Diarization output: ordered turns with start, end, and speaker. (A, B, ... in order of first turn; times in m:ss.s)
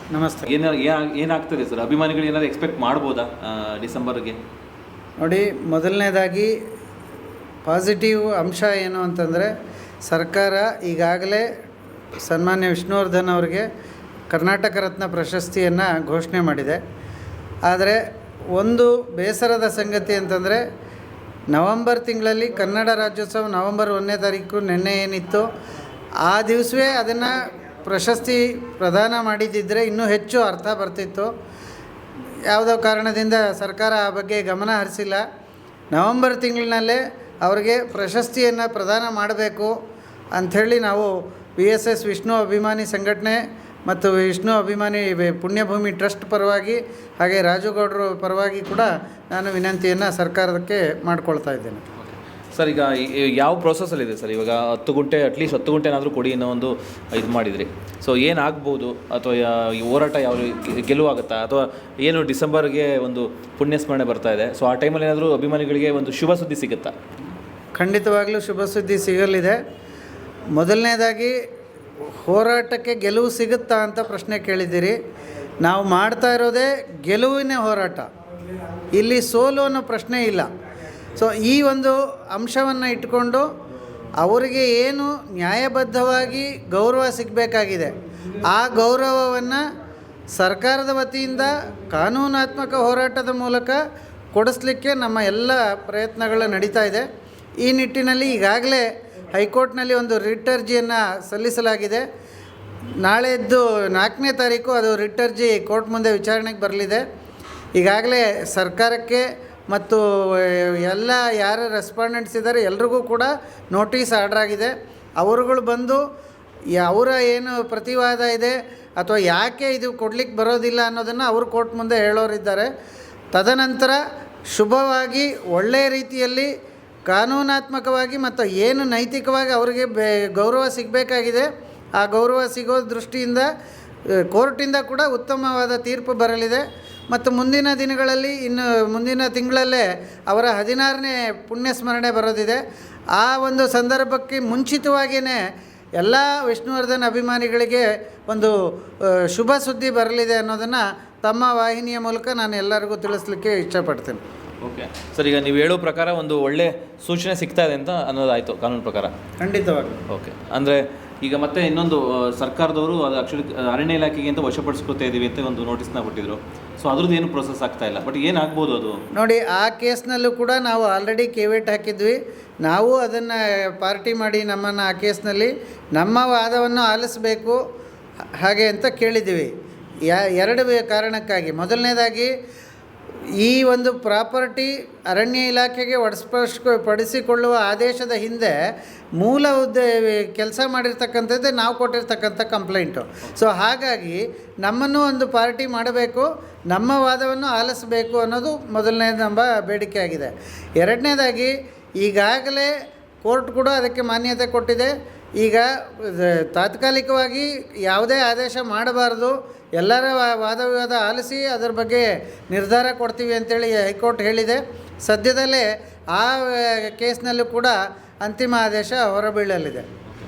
0:00.1-0:00.5 A
0:00.5-0:04.4 B
0:05.2-0:06.5 A
0:07.7-0:09.5 A
0:10.1-0:11.4 A
0:12.2-0:13.7 A
0:14.3-0:16.8 A
0:17.7-0:18.0 A
0:18.6-0:20.6 A
0:21.5-0:25.5 A
0:26.3-0:31.3 A
0:32.5-0:35.2 A
0:35.9-0:39.7 A
0:40.4-0:51.8 A
0:52.0-1:06.9 B
1:07.8-1:09.6 A
1:10.6-1:11.4 A
1:12.2-1:15.0 A
1:15.6-1:18.1 A
1:18.9-1:20.5 A
1:21.2-1:23.5 A
1:24.2-1:29.6 A
1:30.4-1:33.8 A
1:34.3-1:37.1 A
1:37.6-1:42.0 A
1:43.0-1:47.0 A
1:47.8-1:56.0 A
1:56.8-2:02.7 A
2:03.3-2:04.0 A
2:04.5-2:06.5 A
2:07.1-2:13.5 A
2:14.1-2:22.6 A
2:23.2-2:25.4 A
2:26.0-2:34.2 A
2:34.6-2:39.1 B
2:39.4-2:40.0 A
2:40.1-2:49.0 B
2:49.1-2:57.6 A
2:58.4-2:59.5 A
3:00.1-3:02.3 A
3:03.4-3:08.5 A
3:09.2-3:39.8 A